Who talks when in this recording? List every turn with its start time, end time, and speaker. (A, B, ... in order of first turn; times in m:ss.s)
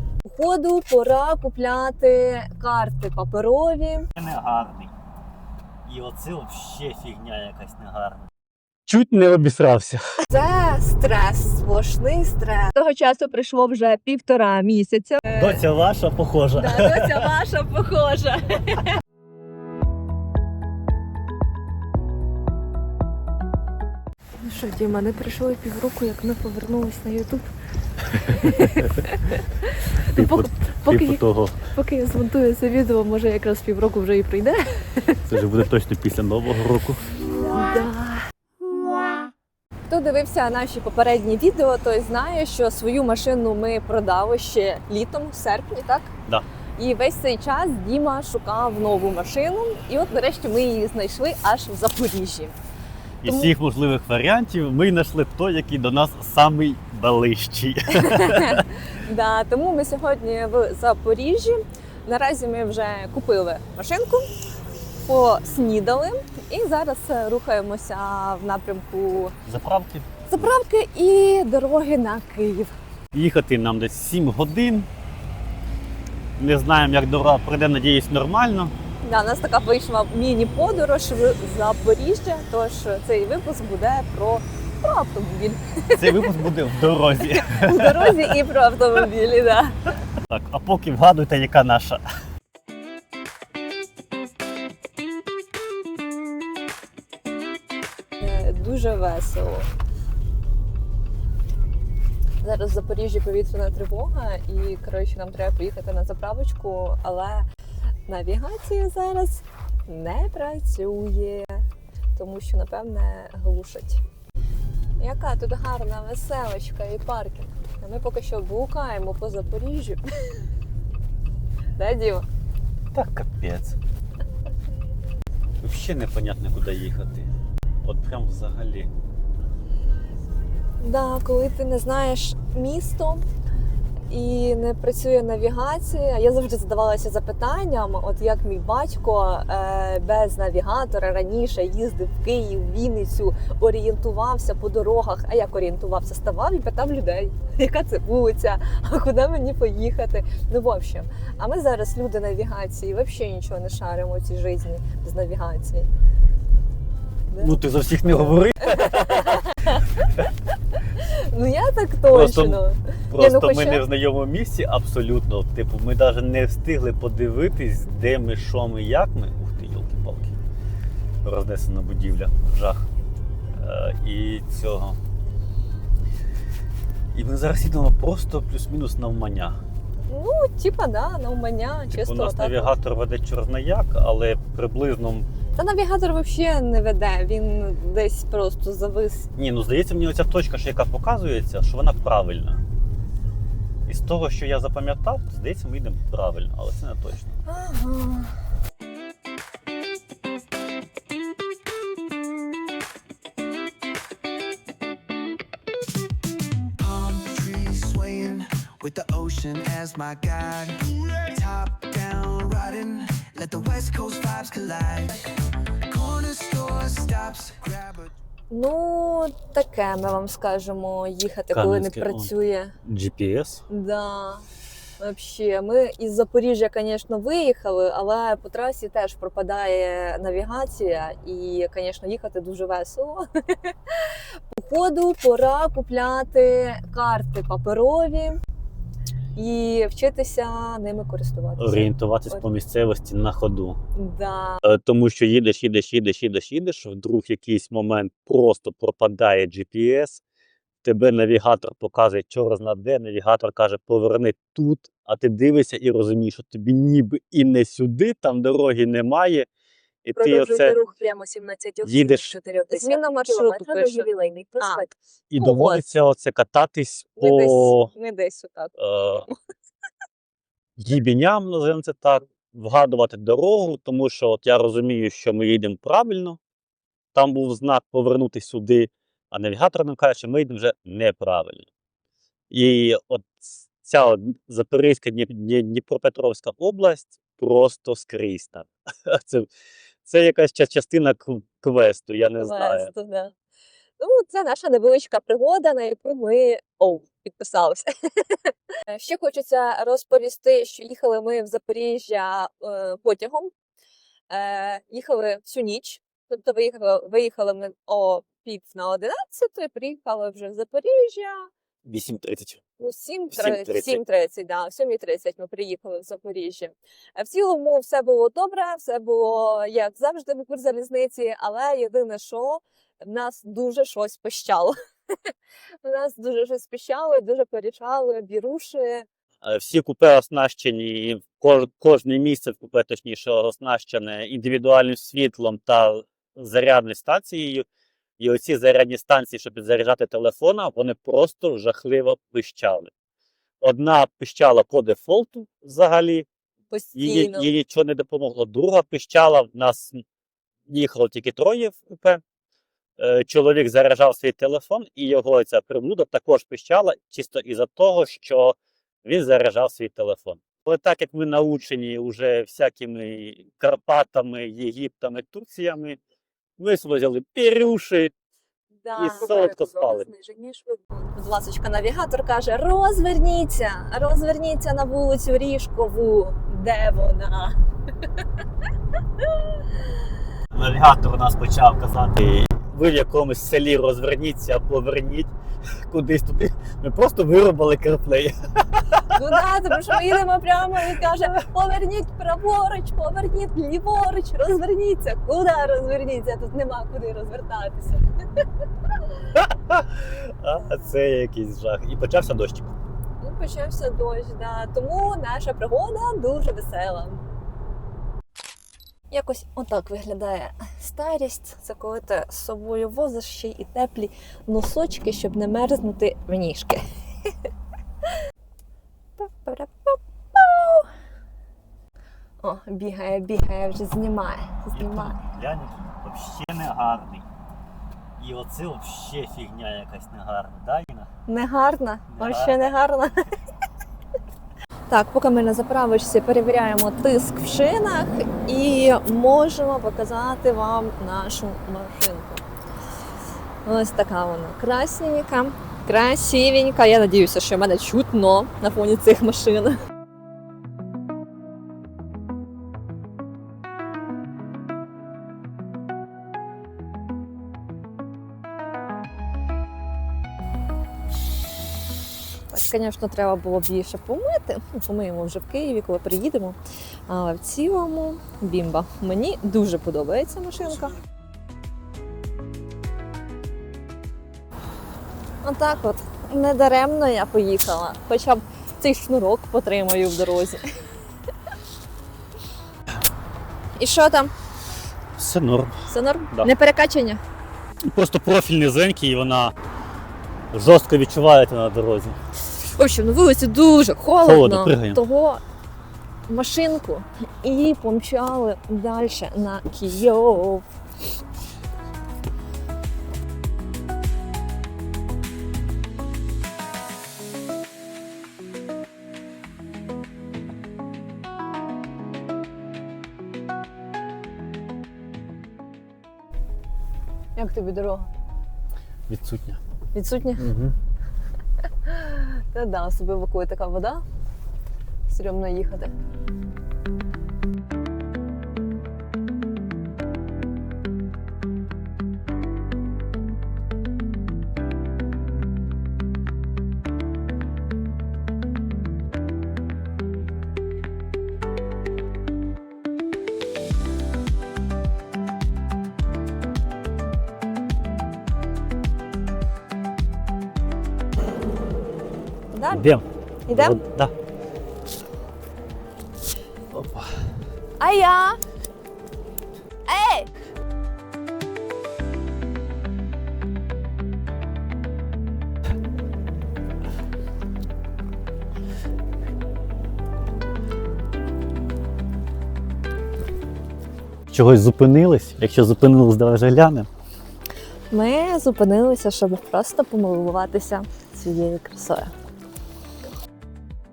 0:00.2-0:04.1 A
0:04.1-0:04.9 B
0:05.9-0:08.3 B
0:08.9-0:10.0 B
0:10.3-0:15.6 A
0:15.4-0:17.3 B
0:16.6-0:19.0 A
0:24.4-0:27.5 A
0:28.2-0:29.1 B
0:28.3-0:35.4 A
0:30.1-0:31.7 B
0:35.3-0:37.0 B
0:37.4-0:38.2 A
0:39.9-0:46.1 A
0:46.8-0:52.6 A
0:53.2-0:58.7 B
0:53.3-0:53.5 A
0:58.0-1:04.3 A
1:05.0-1:09.4 A
1:09.4-1:10.5 B
1:10.3-1:12.8 A
1:13.1-1:14.9 B
1:16.4-1:18.7 B
1:19.0-1:26.3 A
1:26.0-1:28.3 B
1:27.3-1:29.8 A
1:30.3-1:32.0 B
1:38.2-1:39.7 A
1:42.4-1:47.5 A
1:48.1-1:51.6 A
1:52.2-1:54.0 A
1:55.0-2:00.0 A
2:01.8-2:02.3 A
2:02.9-2:03.8 B
2:05.6-2:07.3 B
2:07.8-2:08.9 B
2:10.8-2:13.2 A
2:14.1-2:35.9 A
2:37.3-2:40.0 A
2:37.4-2:40.3 B
2:41.0-2:43.8 A
2:42.1-2:50.4 B
2:51.2-2:52.9 B
2:53.6-2:55.0 B
2:57.1-2:59.6 B
3:00.1-3:02.7 A
3:01.9-3:05.3 B
3:05.6-3:09.3 A
3:09.4-3:12.6 B
3:13.9-3:17.4 B
3:17.5-3:18.4 A
3:26.8-3:35.3 C
3:35.9-3:38.1 C
3:38.5-3:42.7 A
3:41.5-3:42.3 B
3:42.8-3:43.6 B
3:43.7-3:44.4 A
3:45.0-3:58.4 A
3:59.4-4:02.4 A
4:01.6-4:03.8 B
4:04.0-4:04.6 A
4:04.6-4:10.2 B
4:10.8-4:19.5 B
4:20.0-4:20.8 B
4:20.2-4:25.0 D
4:21.8-4:22.4 B
4:22.7-4:24.8 A
4:25.3-4:27.9 B
4:25.4-4:25.8 A
4:27.2-4:28.7 A
4:28.8-4:29.3 B
4:30.8-4:36.4 B
4:37.1-4:41.7 B
4:42.5-4:49.5 B
4:50.0-4:52.9 B
4:52.4-4:53.3 A
4:54.0-5:03.5 A
5:04.3-5:11.5 A
5:11.8-5:12.6 B
5:12.8-5:24.8 A
5:13.3-5:14.0 B
5:25.8-5:29.1 A
5:29.4-5:37.7 B
5:38.2-5:42.9 B
5:43.6-5:46.3 B
5:46.7-5:47.5 A
5:47.0-5:50.0 B
5:50.7-5:52.2 B
5:53.0-6:06.0 B
6:06.6-6:08.1 B
6:08.8-6:17.6 A
6:08.9-6:10.1 B
6:20.5-6:25.3 B
6:25.9-6:29.1 B
6:29.1-6:38.0 A
6:39.4-6:42.8 B
6:43.2-6:47.2 A
6:49.1-6:56.8 A
6:59.2-7:00.9 A
7:02.4-7:05.2 A
7:04.7-7:07.3 B
7:08.2-7:11.1 B
7:11.3-7:13.2 A
7:12.1-7:12.7 B
7:14.9-7:22.4 A
7:23.6-7:29.8 A
7:42.5-7:50.9 A
7:55.4-8:00.6 A
8:03.8-8:04.3 A
8:05.2-8:06.5 B
8:05.9-8:07.2 A
8:07.9-8:09.5 B
8:10.5-8:12.2 B
8:12.8-8:15.4 A
8:14.2-8:15.0 B
8:16.3-8:20.7 A
8:37.4-8:38.1 A
8:39.1-8:39.6 B
8:39.9-8:40.5 A
8:40.4-8:40.7 B
8:41.8-8:44.0 A
8:45.1-8:45.9 A
9:12.5-9:12.9 A
9:12.7-9:14.1 B
9:13.5-9:13.8 A
9:16.7-9:17.2 B
9:17.8-9:18.4 A
9:19.9-9:20.3 A
9:34.3-9:36.9 B
9:37.9-9:42.1 A